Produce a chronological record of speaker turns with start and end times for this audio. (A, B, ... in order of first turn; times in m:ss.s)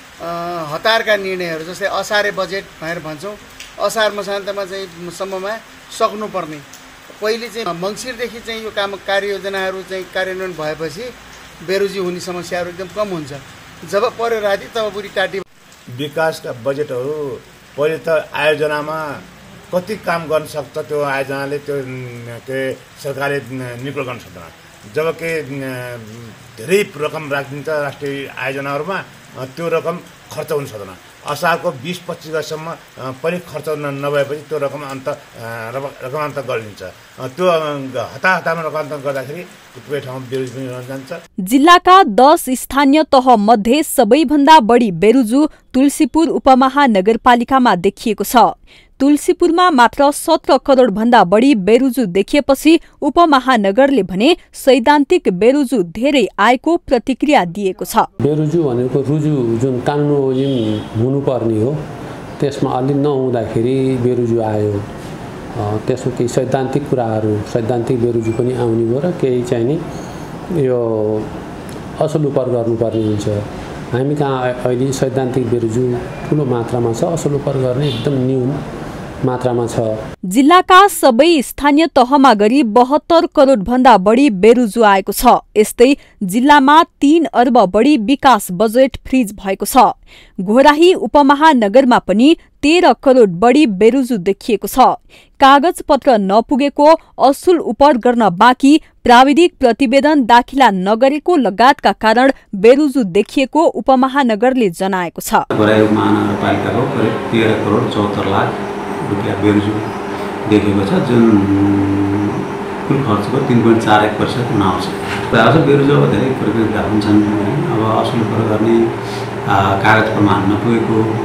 0:00.2-0:06.6 A
0:07.2-0:15.4 A
0:15.9-0:19.1 B
0:19.7-0:41.2 B
0:41.4-0:58.1 C
0:58.2-1:01.8 D
1:02.4-1:04.9 D
1:05.6-1:09.8 D
1:10.5-1:11.3 D
1:12.0-1:18.6 D
1:19.2-1:19.9 D
1:20.3-1:45.4 C
1:45.5-1:49.9 E
1:50.5-1:58.9 E
1:59.4-2:01.0 E